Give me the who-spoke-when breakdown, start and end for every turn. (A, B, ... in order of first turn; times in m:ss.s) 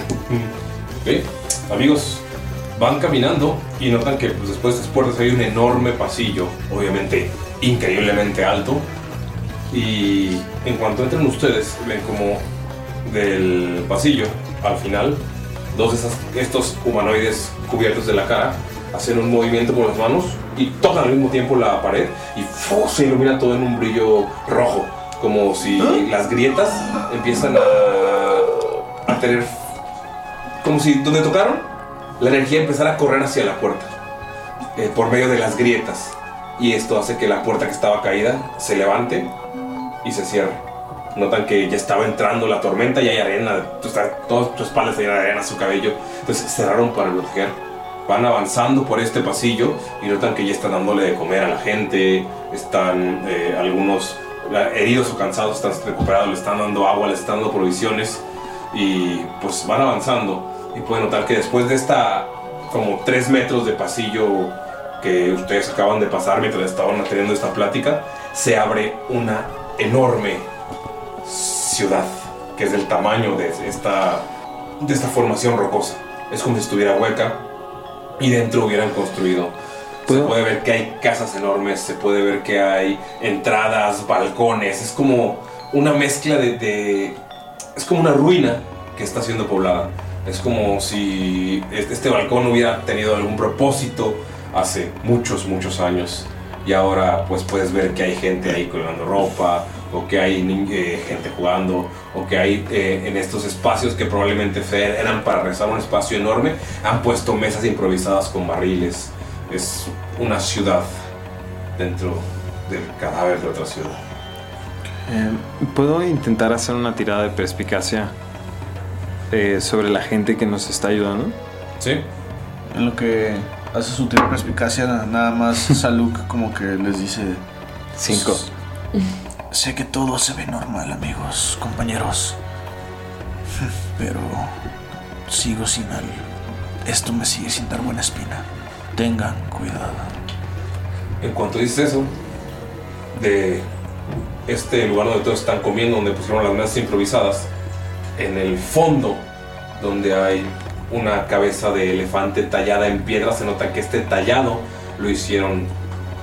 0:01.0-0:02.2 A
0:02.8-0:08.8 A
0:09.7-0:12.4 A
0:13.0-0:15.2 A
0:15.7-0:29.6 A
0:30.6-0:31.7 A
0:32.2-0:33.9 A
0:34.8-0:39.3 A
0:40.0-0:40.6 A
0:41.1-1:10.5 A
1:11.2-1:14.2 A
1:14.8-1:17.4 A
1:18.2-1:19.5 A
1:20.0-1:27.2 A
1:20.1-1:20.4 B
1:27.8-1:50.9 A
1:51.8-1:54.0 A
1:55.1-1:55.4 C
1:55.6-1:58.1 B
1:59.3-2:01.4 B
2:01.8-2:02.0 A
2:02.7-2:07.4 C
2:08.0-2:08.5 B
2:08.1-2:08.4 C
2:09.5-2:12.4 C
2:13.6-2:14.6 C
2:15.3-2:16.2 C
2:16.8-2:20.1 C
2:21.2-2:22.1 A
2:23.1-2:23.7 A
2:24.5-2:27.5 A
2:28.2-2:29.2 A
2:29.8-2:35.7 A